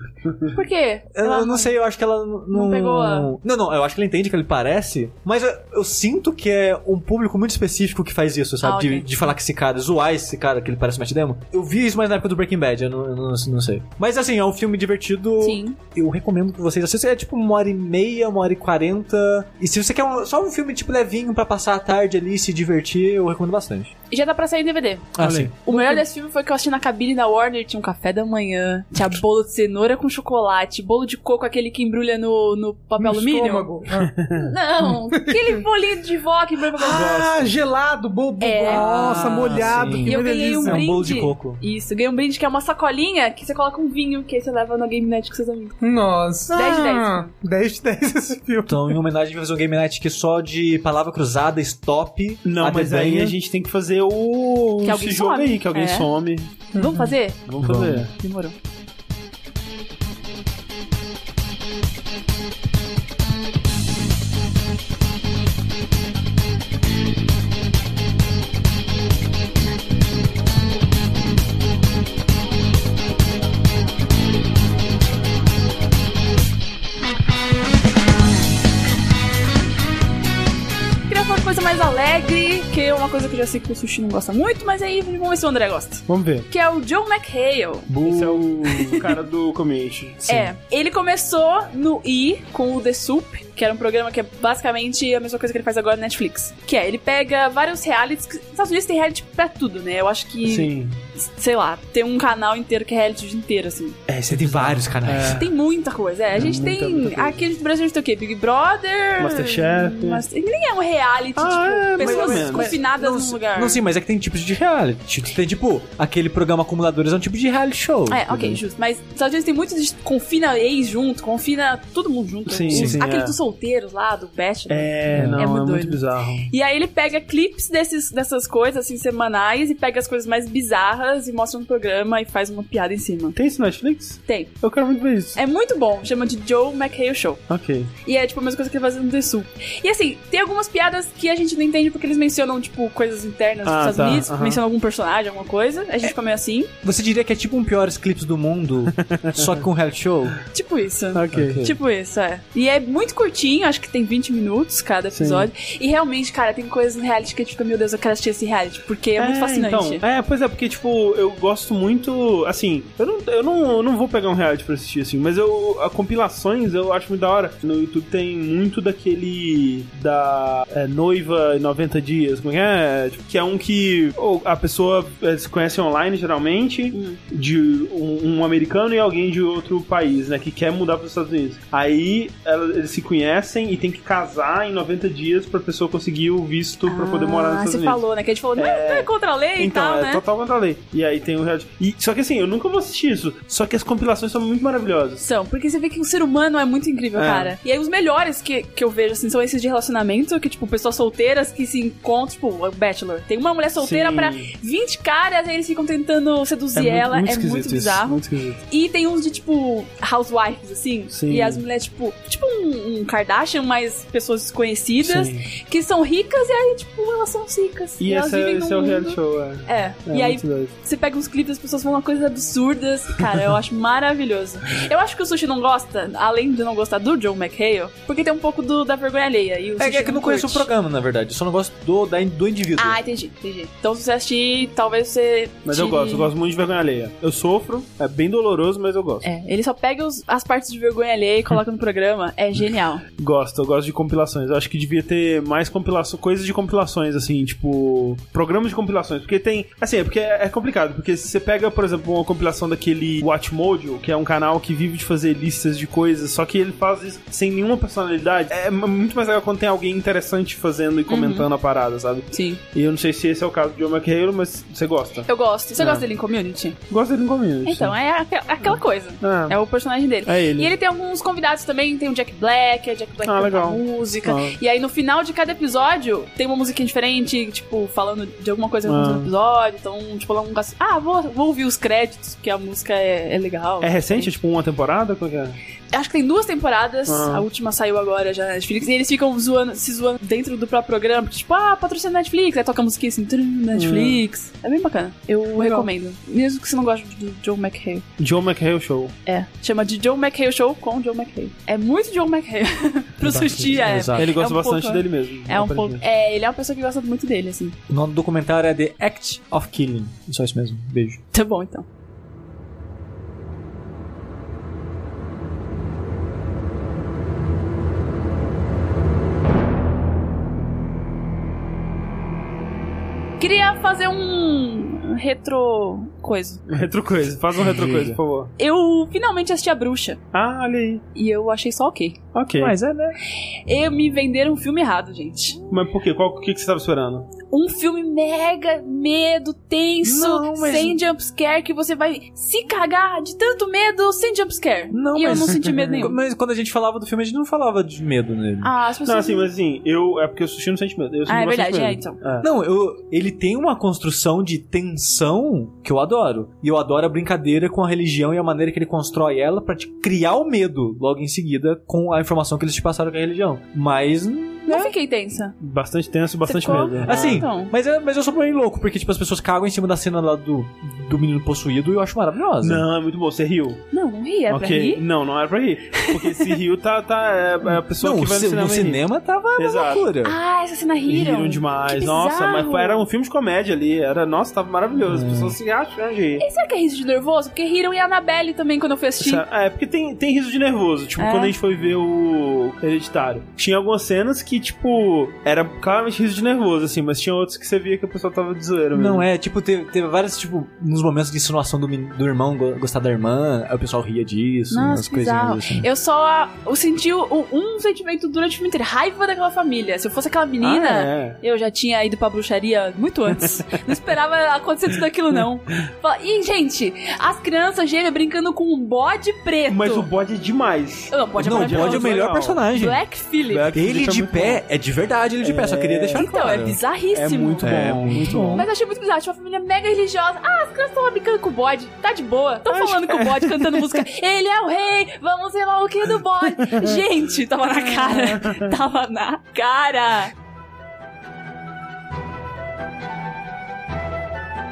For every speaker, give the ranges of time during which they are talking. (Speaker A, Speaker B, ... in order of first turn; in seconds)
Speaker A: 0.5-1.7, 2.5-3.3, 8.6-9.3, 15.4-15.8, 24.1-33.7, 34.3-37.1, 38.4-45.8, 46.5-47.3, 54.8-56.1, 56.7-58.5, 81.1-89.2, 90.3-104.0, 105.2-113.8, 118.1-133.4, 134.3-134.5, 135.3-137.4, 138.0-146.7, 150.5-160.0, 176.9-177.2, 186.9-190.2, 195.2-230.7, 232.8-236.3, 239.2-243.0, 261.1-261.5, 262.3-262.6, 265.3-266.8, 267.6-284.3, 285.9-298.1, 299.3-307.8, 311.3-311.9, 323.4-326.6, 328.6-330.2, 331.1-332.2, 333.7-335.6, 337.5-346.1, 348.6-349.5, 351.3-352.2, 364.7-365.6, 366.4-367.7, 373.9-375.1, 376.0-376.5, 380.2-383.1, 386.4-389.4, 391.2-391.6, 404.7-420.1, 421.1-423.7, 426.1-440.3
Speaker B: 1.1-23.9, 25.1-25.6, 38.7-41.6, 48.7-53.4, 57.6-58.1, 88.0-88.3, 104.3-105.4, 112.0-118.6, 122.7-123.0, 125.1-125.4, 146.8-150.4, 151.3-151.7, 229.8-233.0, 303.2-304.3, 307.9-311.2, 327.7-328.2, 332.6-333.2, 344.9-348.7, 352.4-364.9, 367.0-372.9, 378.0-380.4, 385.0-385.6, 398.9-405.9, 421.4-423.0, 423.7-426.8, 427.6-428.7
Speaker C: 25.2-25.5, 33.9-34.4, 36.9-37.5, 52.4-56.5, 57.5-58.1, 86.1-86.5, 87.9-90.5, 100.4-101.0, 104.1-105.5, 106.3-107.5, 109.2-110.2, 111.4-112.8, 122.5-123.4, 124.7-126.5, 133.3-135.4, 137.5-137.9, 143.7-144.6, 149.0-149.6, 151.1-151.7, 155.1-155.5, 159.2-188.0, 188.6-195.3, 197.2-197.6, 203.8-204.5, 206.8-208.6, 211.1-211.6, 215.0-215.5, 218.0-220.7, 235.7-239.3, 243.2-266.1, 266.9-268.0, 268.6-269.6, 270.2-270.7, 273.2-274.6, 278.9-279.3, 283.8-285.6, 287.1-287.5, 293.7-294.2, 295.6-295.9, 298.2-299.1, 303.2-306.0, 326.7-328.5, 330.3-331.0, 332.3-332.8, 335.7-337.3, 340.0-341.0, 345.2-346.1, 349.1-352.5, 365.6-367.4, 372.6-373.8, 374.5-379.0, 379.6-380.1, 381.1-386.5, 389.2-399.3, 410.6-411.4, 419.7-422.6, 423.5-424.6, 425.4-426.3, 427.1-428.7, 432.7-434.0, 436.4-437.0
Speaker D: 25.7-26.0, 33.0-34.1, 34.8-35.6, 36.8-40.8, 45.8-49.0, 56.7-57.1